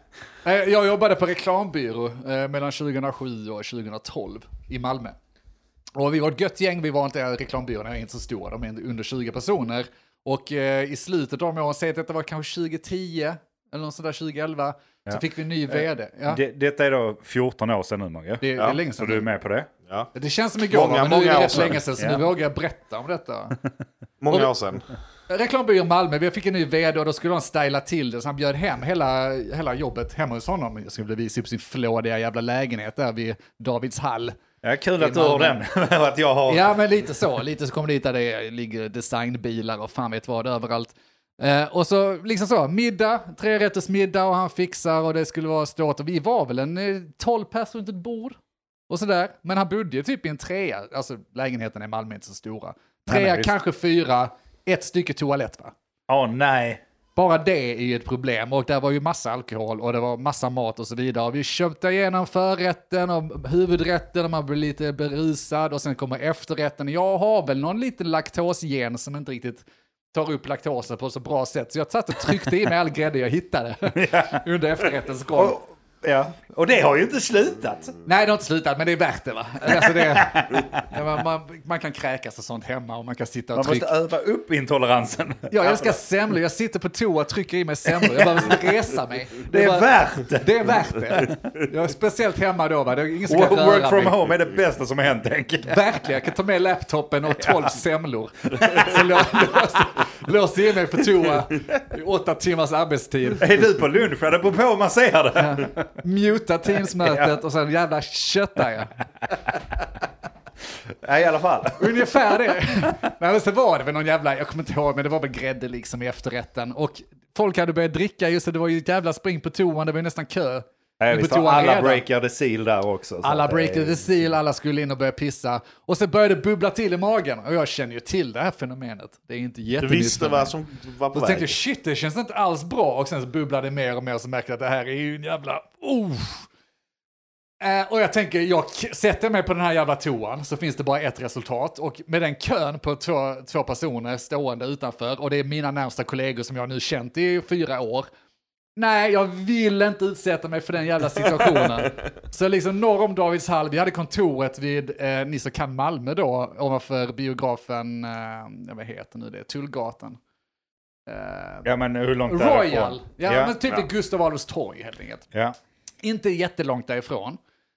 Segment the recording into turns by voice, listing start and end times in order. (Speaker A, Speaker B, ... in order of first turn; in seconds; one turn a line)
Speaker A: 0.4-5.2
Speaker A: 6.0-16.4
Speaker B: 15.1-19.7
Speaker A: 18.4-19.2
Speaker A: 20.1-23.6
Speaker C: 20.7-21.8
Speaker B: 21.7-22.3
Speaker C: 24.2-24.9
Speaker A: 25.3-34.4
Speaker B: 34.6-36.7
Speaker A: 35.0-35.6
Speaker A: 36.5-48.4
Speaker A: 48.9-55.7
Speaker B: 53.1-53.5
Speaker B: 56.1-56.8
Speaker A: 57.2-75.6
Speaker B: 74.0-74.4
Speaker B: 75.3-77.9
Speaker A: 78.0-83.9
Speaker B: 79.7-80.8
Speaker B: 83.5-86.0
Speaker A: 85.5-94.2
Speaker B: 87.9-88.6
Speaker B: 89.5-91.4
Speaker B: 93.3-95.8
Speaker A: 95.7-103.5
Speaker B: 97.4-97.7
Speaker B: 103.4-105.9
Speaker A: 105.3-108.9
Speaker B: 106.8-107.4
Speaker B: 110.9-112.2
Speaker A: 111.8-122.0
Speaker B: 121.0-124.1
Speaker A: 123.2-130.5
Speaker C: 129.8-131.6
Speaker A: 131.1-136.5
Speaker A: 137.6-148.1
Speaker A: 148.8-160.2
Speaker A: 161.1-161.7
Speaker B: 161.6-163.6
Speaker A: 162.3-165.2
Speaker A: 166.0-167.4